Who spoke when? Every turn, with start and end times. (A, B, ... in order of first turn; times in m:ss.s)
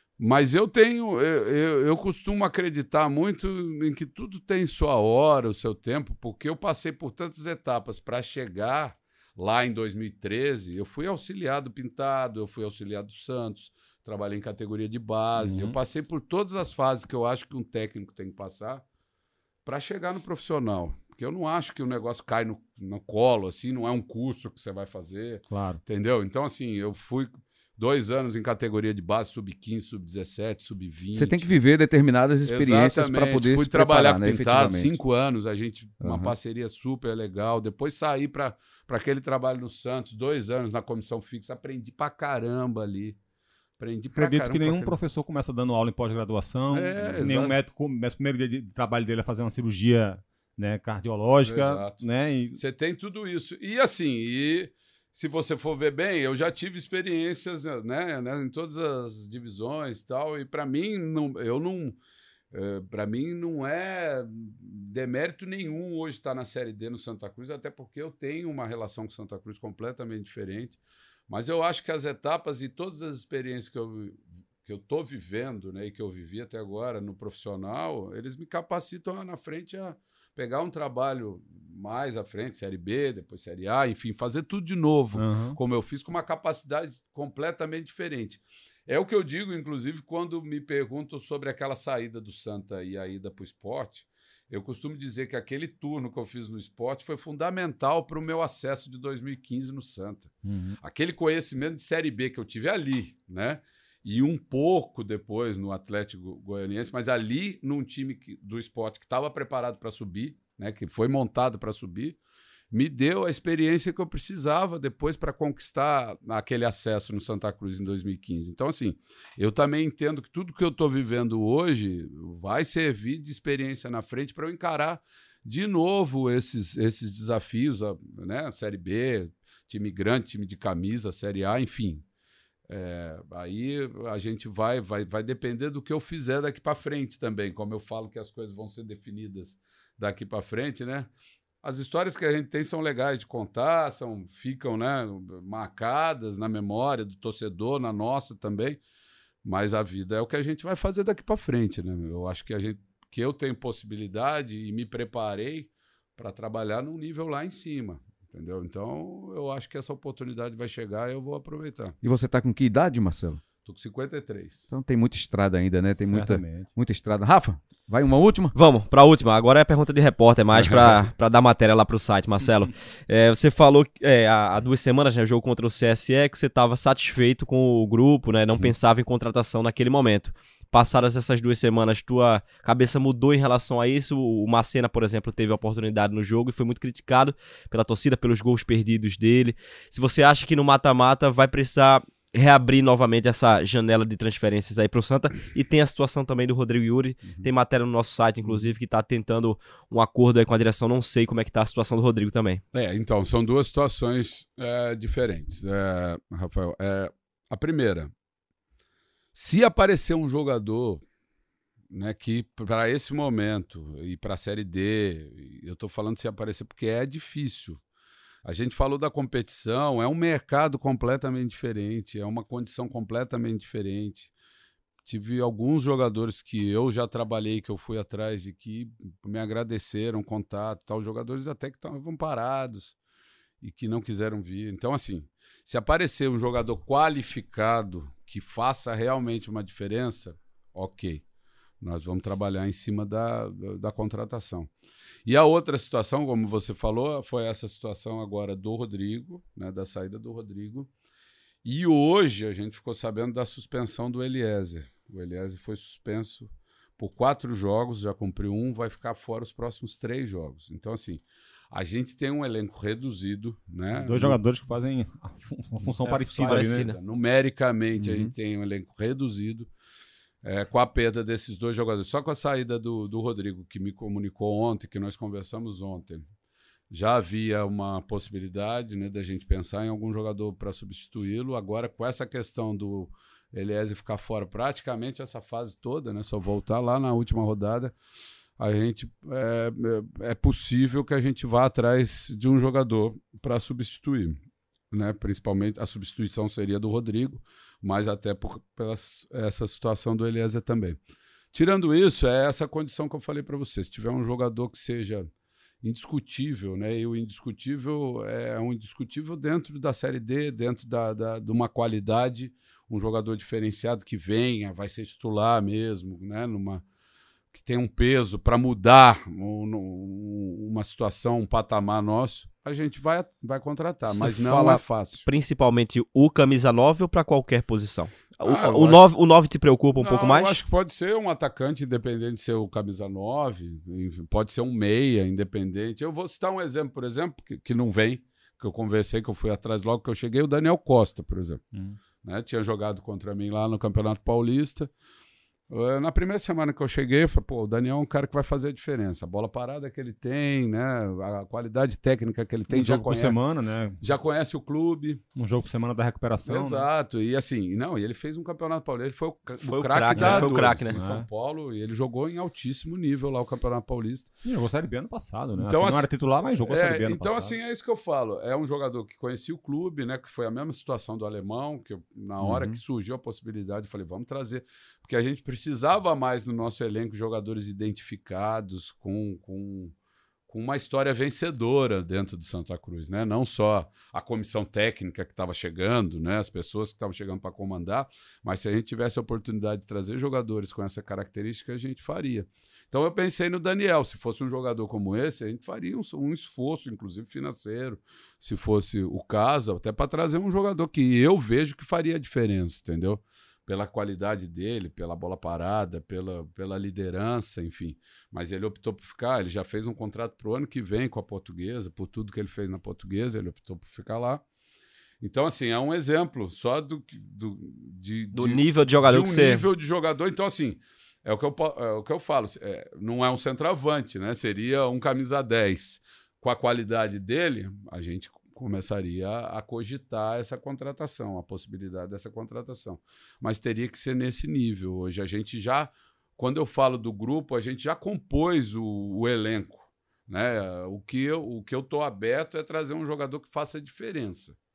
0:00.2-0:18.8 A
0:15.4-0:15.8 B
0:19.6-0:31.5 A
0:25.5-0:25.8 B
0:31.1-0:34.9 C
0:32.4-0:43.2 A
0:36.0-0:36.3 C
0:43.8-0:45.0 A
0:44.1-0:52.6 B
0:46.7-0:47.6 A
0:51.4-0:52.0 A
0:52.5-1:02.0 A
1:02.5-1:52.2 A
1:25.1-1:25.6 B
1:40.4-1:40.8 B
1:52.7-2:12.0 A
2:12.7-2:21.1 A
2:21.6-2:28.8 A
2:29.4-2:42.0 A
2:42.0-2:43.4 C
2:43.6-2:44.7 A
2:44.7-2:48.5 C
2:46.0-2:46.7 B
2:48.5-3:22.6 D
2:50.6-2:51.0 A
3:22.7-3:28.1 A
3:29.3-3:31.0 A
3:31.9-3:37.8 A
3:38.4-3:44.3 A
3:45.0-3:52.9 A
3:53.6-4:01.2 A
4:01.8-4:04.7 A
4:05.2-4:10.9 A
4:11.6-4:24.4 A
4:23.9-4:26.9 B
4:26.0-4:27.0 D
4:26.1-4:29.7 A
4:28.0-4:28.3 C
4:30.4-4:36.2 A
4:36.9-4:47.9 A
4:48.6-4:54.4 A
4:54.9-5:01.0 A
5:01.5-5:05.3 A
5:05.8-5:16.8 A
5:17.5-5:25.2 A
5:24.1-5:24.8 C
5:24.5-5:24.7 D
5:25.2-5:30.6 D
5:28.4-5:29.0 A
5:30.0-5:41.6 A
5:41.7-5:42.0 B
5:42.2-5:44.9 A
5:45.7-5:53.4 A
5:52.7-5:54.0 B
5:54.0-5:55.2 A
5:55.4-5:56.9 B
5:56.4-6:04.3 A
5:59.6-6:01.0 D
6:00.1-6:01.2 B
6:04.4-6:07.6 B
6:05.6-6:06.1 A
6:06.6-6:19.9 A
6:12.4-6:12.8 C
6:20.5-6:54.4 A
6:55.2-7:24.6 A
6:58.3-6:59.6 D